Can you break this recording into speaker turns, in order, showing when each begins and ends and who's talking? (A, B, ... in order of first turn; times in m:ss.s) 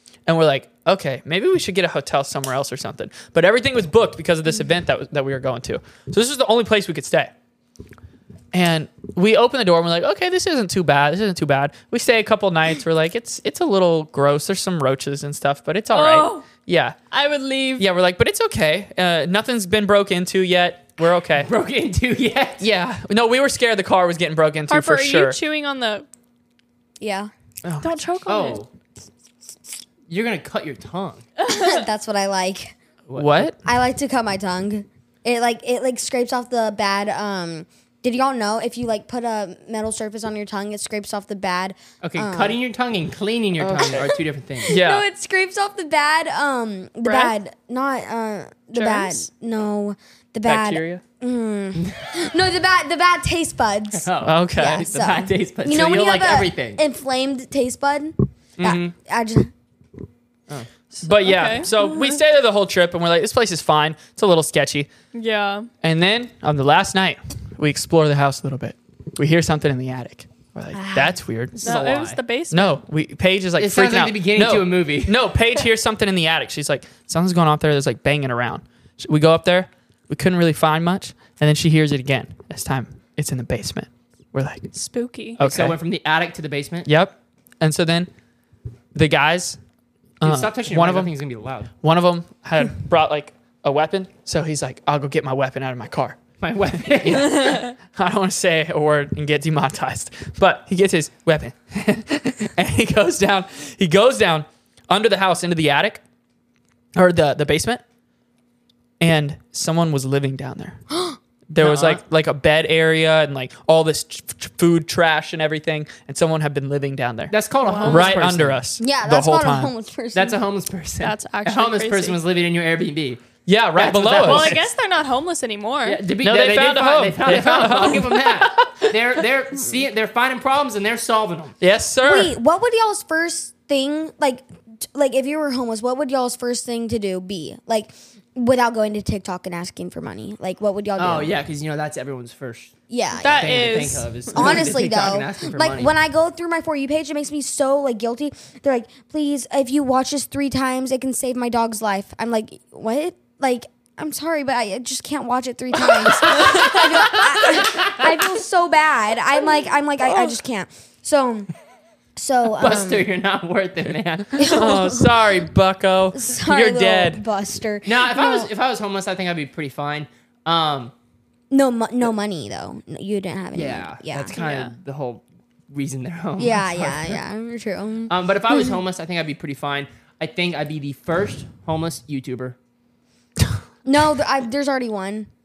0:00.3-0:07.3 A
0:08.5-0:17.0 A
0:15.9-0:16.5 B
0:17.1-0:17.8 B
0:17.8-0:21.5 A
0:21.4-0:22.6 C
0:22.6-0:25.4 A
0:24.7-0:26.0 B
0:27.0-0:27.3 D
0:27.6-0:28.0 A
0:27.8-0:28.6 B
0:28.2-0:28.7 C
0:30.1-0:31.2 C
0:31.4-0:31.8 B
0:31.5-0:32.8 D
0:33.1-0:33.5 C
0:33.1-0:33.6 A
0:33.6-0:42.6 D
0:42.0-0:44.7 C
0:43.6-0:44.1 A
0:43.8-0:59.5 D
0:44.7-0:45.0 A
0:47.0-0:47.3 B
0:48.7-0:49.2 B
0:50.4-0:51.0 A
0:51.8-0:52.2 C
0:53.9-0:56.8 C
0:54.2-0:54.9 A
0:58.6-0:58.9 C
1:01.0-1:04.9 A
1:01.2-1:01.7 B
1:05.1-1:05.7 B
1:05.8-1:11.8 A
1:10.7-1:11.2 D
1:11.6-1:12.2 C
1:11.6-1:12.8 B
1:12.5-1:24.7 A
1:13.6-1:15.2 C
1:24.7-1:25.4 B
1:25.4-1:25.8 A
1:25.4-1:26.9 C
1:26.8-1:28.1 A
1:28.9-1:29.6 A
1:30.2-1:31.1 A
1:30.2-1:31.7 C
1:31.8-1:36.2 A
1:36.4-1:37.7 C
1:36.9-1:46.0 A
1:46.9-1:47.8 A
1:49.0-1:50.8 A
1:50.9-1:51.2 D
1:51.5-1:59.7 A
1:51.6-1:52.0 C
1:57.3-1:58.6 C
1:57.6-1:58.2 B
1:58.8-2:00.4 D
2:00.1-2:03.2 C
2:01.0-2:02.2 B
2:03.4-2:04.6 A
2:03.8-2:04.6 C
2:04.2-2:06.0 B
2:05.8-2:11.6 C
2:06.2-2:08.9 A
2:11.6-2:12.3 A
2:12.0-2:21.3 D
2:21.0-2:22.7 C
2:22.9-2:41.5 D
2:23.2-2:24.7 B
2:23.3-2:25.9 C
2:36.0-2:38.1 C
2:42.2-2:43.1 D
2:42.6-2:44.4 C
2:44.4-2:45.4 D
2:44.4-2:47.2 A
2:46.1-2:48.5 D
2:47.8-2:50.9 C
2:51.5-2:54.3 D
2:53.5-2:57.2 C
2:54.3-2:54.7 B
2:56.4-2:58.8 D
2:58.1-3:02.6 C
3:03.8-3:05.3 D